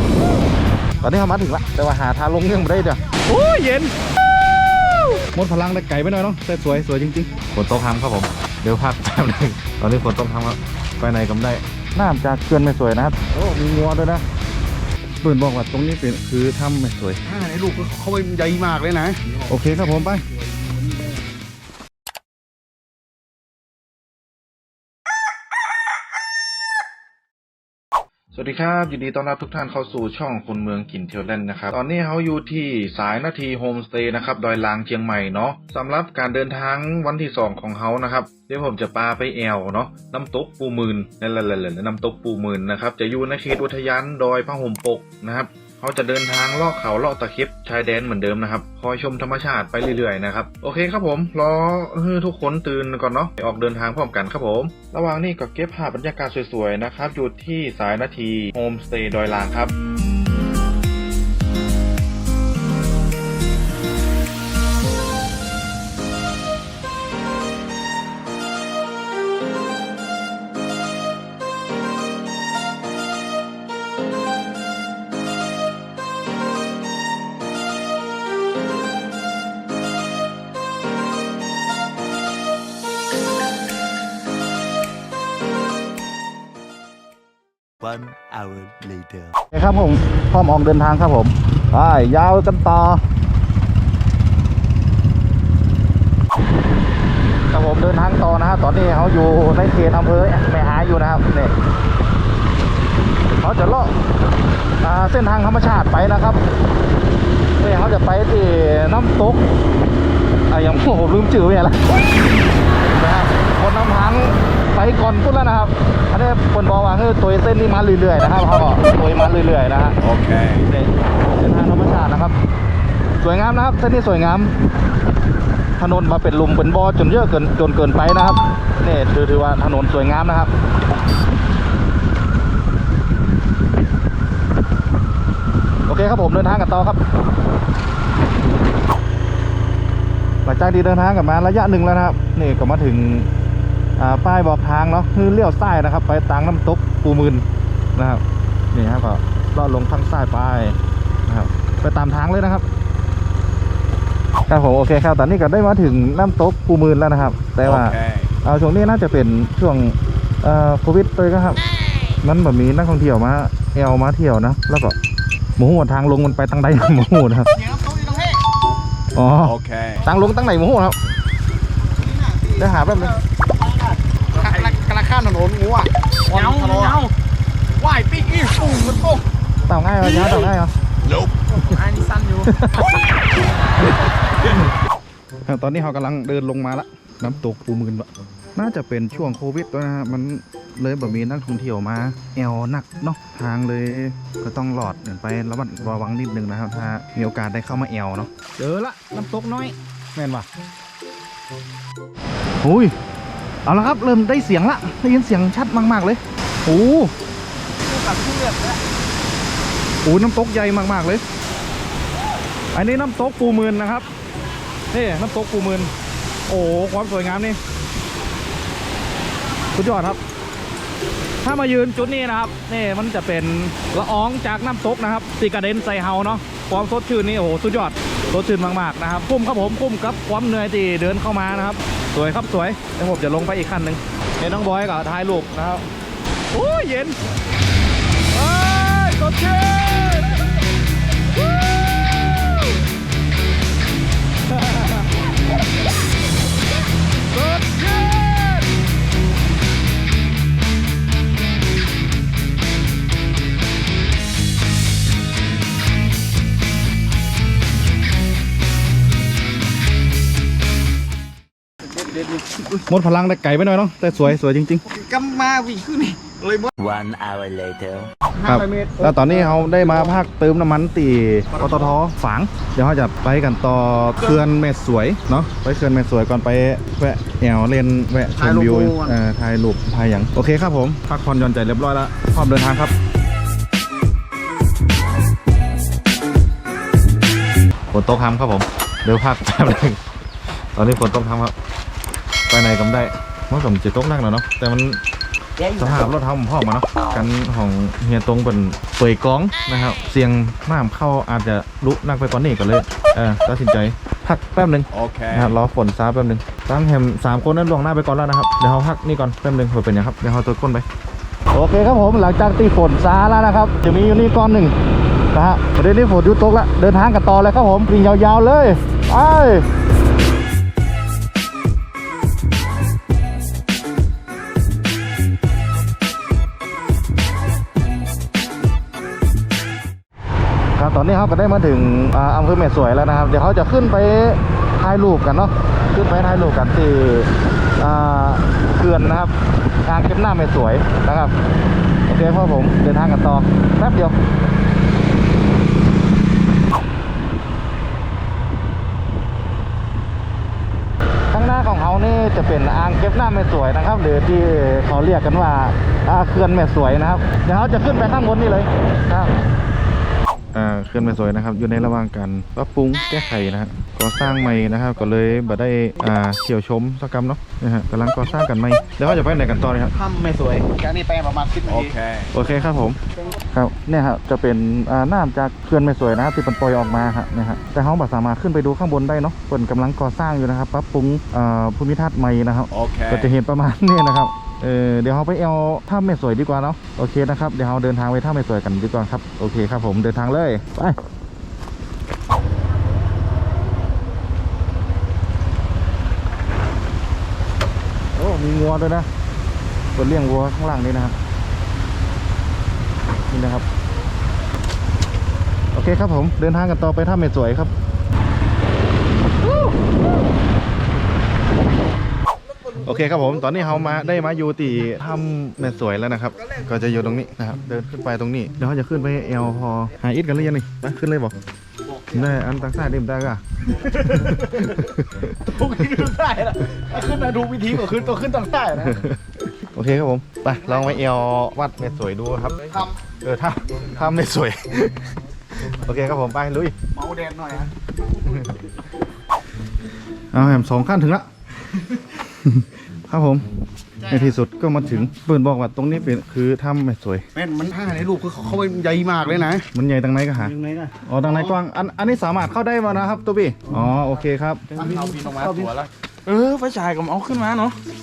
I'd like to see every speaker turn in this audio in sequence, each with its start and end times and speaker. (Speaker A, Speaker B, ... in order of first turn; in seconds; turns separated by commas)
Speaker A: 1.0-3.9, Speaker A: 5.2-14.2, Speaker A: 15.2-17.2, Speaker B: 17.2-19.4, Speaker A: 19.5-20.2, Speaker B: 20.6-21.1, Speaker A: 28.3-59.7, Speaker C: 87.8-89.3, Speaker A: 89.5-93.0, Speaker A: 97.5-101.5, Speaker A: 103.3-103.9, Speaker A: 104.8-106.4, Speaker A: 107.6-109.4, Speaker A: 110.5-112.0, Speaker A: 112.8-120.0, Speaker C: 120.0-120.7, Speaker A: 120.6-122.3, Speaker A: 123.2-124.5, Speaker A: 125.8-130.5, Speaker A: 135.8-137.0, Speaker A: 140.4-143.3, Speaker A: 144.0-152.6, Speaker A: 154.5-161.6, Speaker C: 157.6-158.3, Speaker A: 162.2-165.0, Speaker A: 165.6-167.5, Speaker B: 167.6-168.4, Speaker A: 169.1-170.9, Speaker C: 169.4-170.0, Speaker B: 171.9-177.1, Speaker A: 172.6-173.2, Speaker D: 176.3-177.0, Speaker B: 177.8-179.2, Speaker A: 179.7-180.7, Speaker B: 181.7-182.1, Speaker D: 181.7-182.4, Speaker A: 182.4-183.0, Speaker A: 185.4-200.5, Speaker A: 202.6-202.9, Speaker A: 203.7-207.1, Speaker B: 207.8-208.8, Speaker A: 210.0-211.2, Speaker A: 212.7-214.1, Speaker A: 214.9-215.9, Speaker A: 216.5-217.6, Speaker A: 219.7-220.2, Speaker A: 221.4-235.8, Speaker A: 236.5-237.2, Speaker A: 238.3-240.4, Speaker A: 241.3-242.5, Speaker A: 244.5-245.0, Speaker A: 247.3-248.7, Speaker B: 261.9-262.8, Speaker A: 262.9-264.8, Speaker B: 264.9-266.7, Speaker C: 267.0-268.0, Speaker B: 268.4-270.1, Speaker A: 268.4-282.9, Speaker B: 271.5-271.9, Speaker B: 278.3-279.2, Speaker A: 287.9-290.0, Speaker A: 290.7-291.5, Speaker A: 292.5-295.0, Speaker A: 295.6-310.9, Speaker C: 304.9-305.6, Speaker A: 311.5-314.8, Speaker A: 315.3-319.6, Speaker A: 330.8-341.3, Speaker A: 342.1-344.2, Speaker A: 351.3-359.3, Speaker A: 360.5-369.9, Speaker B: 369.9-371.9, Speaker C: 371.7-372.3, Speaker A: 372.3-373.0, Speaker A: 373.5-391.0, Speaker C: 382.7-383.3, Speaker A: 398.1-399.1, Speaker A: 399.9-401.1, Speaker A: 403.3-403.6, Speaker A: 405.7-407.7, Speaker A: 412.8-421.3, Speaker A: 422.1-425.4, Speaker B: 425.4-429.0, Speaker A: 428.9-435.1, Speaker B: 432.6-433.0, Speaker A: 435.6-436.7, Speaker B: 436.9-437.7, Speaker A: 440.3-441.3, Speaker A: 441.9-443.4, Speaker A: 444.0-447.2, Speaker B: 447.3-449.7, Speaker A: 449.7-454.7, Speaker D: 450.4-450.9, Speaker B: 451.2-451.6, Speaker D: 454.7-455.7, Speaker B: 454.7-455.7, Speaker D: 456.2-457.8